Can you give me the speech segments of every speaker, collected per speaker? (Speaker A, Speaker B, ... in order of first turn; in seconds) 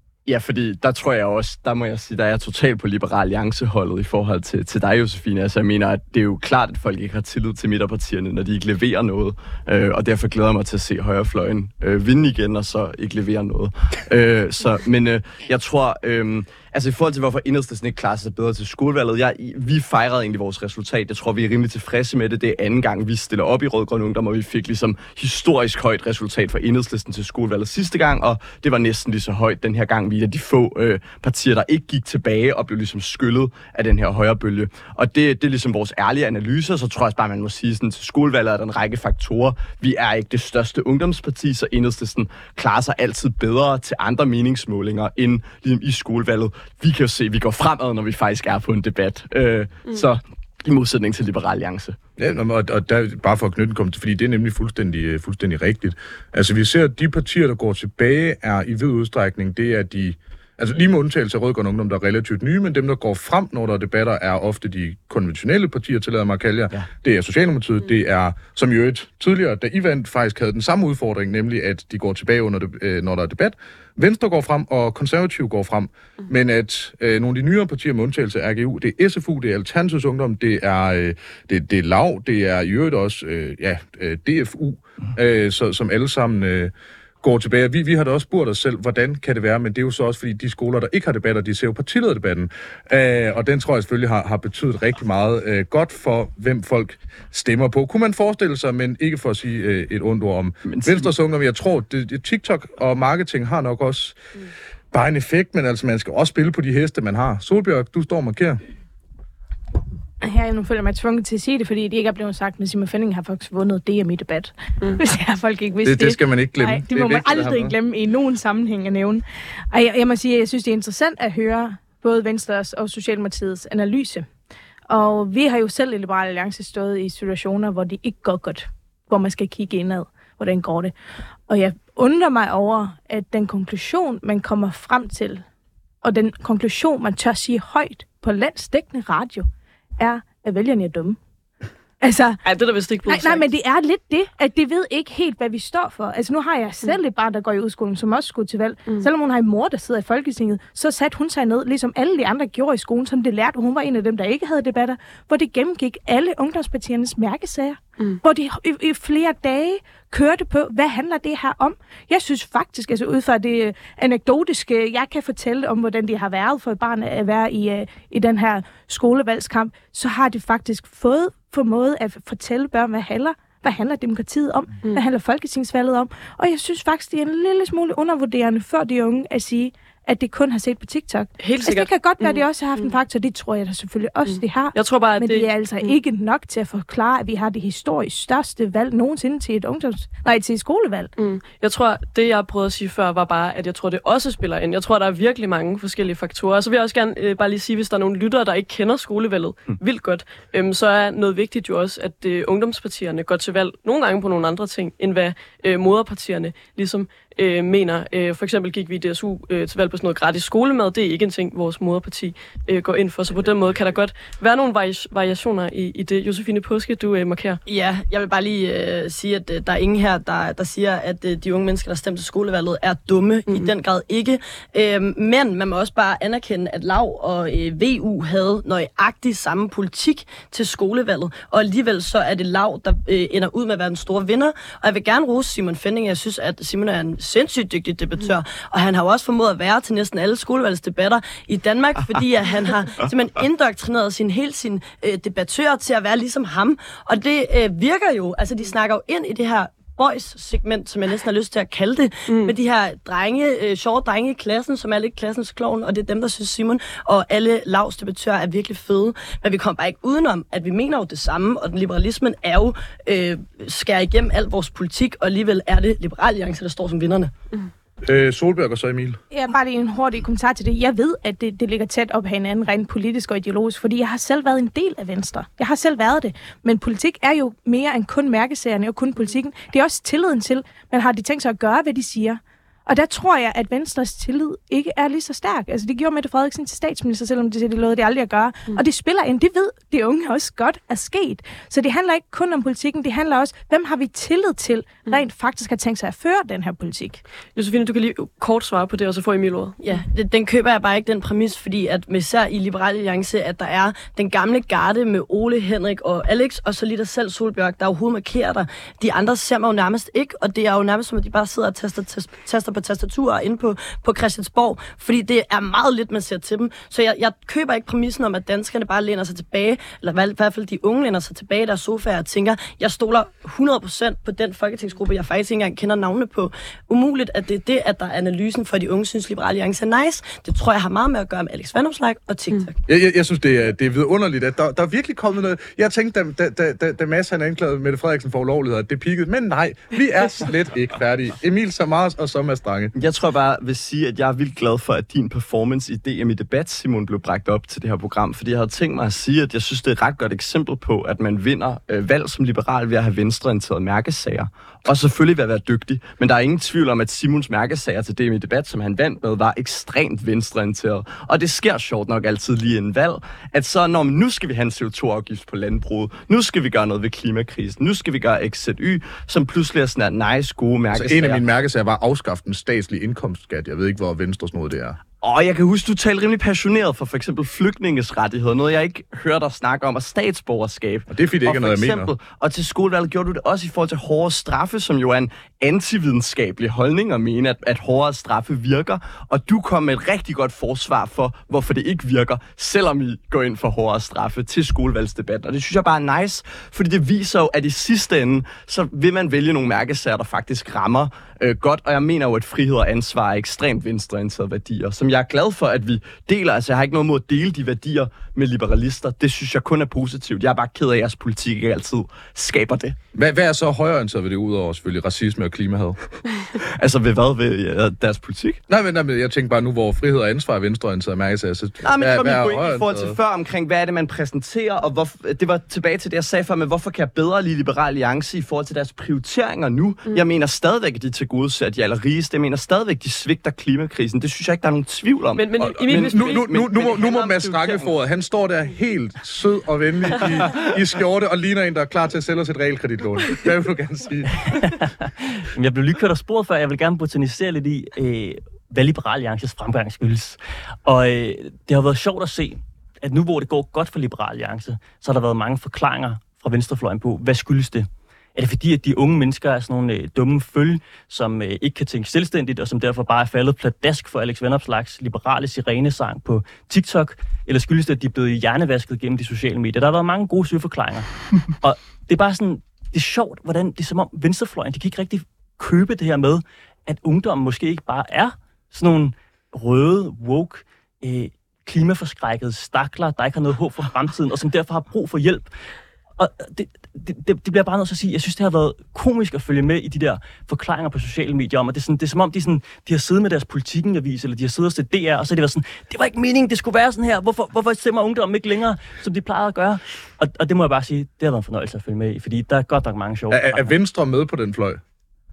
Speaker A: 0.3-52.0, 100.7-101.1, 343.0-371.4, 375.2-413.0, 416.6-418.6, 421.8-437.2
Speaker B: 52.2-104.2, 104.9-108.6, 115.8-117.7, 268.0-269.2, 332.9-342.9, 370.9-375.0, 381.1-382.1, 413.1-416.0, 418.7-423.2, 435.6-444.5, 503.3-504.8
Speaker C: 110.2-124.3, 124.9-130.9, 131.5-135.4, 136.0-139.5, 140.0-141.2, 142.0-142.4, 143.1-191.1, 269.3-297.2
Speaker D: 142.4-143.5, 181.4-182.9, 184.3-186.0, 191.2-217.6, 252.3-252.6, 297.6-300.0, 435.3-436.6
Speaker E: 217.7-267.3, 299.8-332.7
Speaker F: 444.5-485.5, 486.2-503.8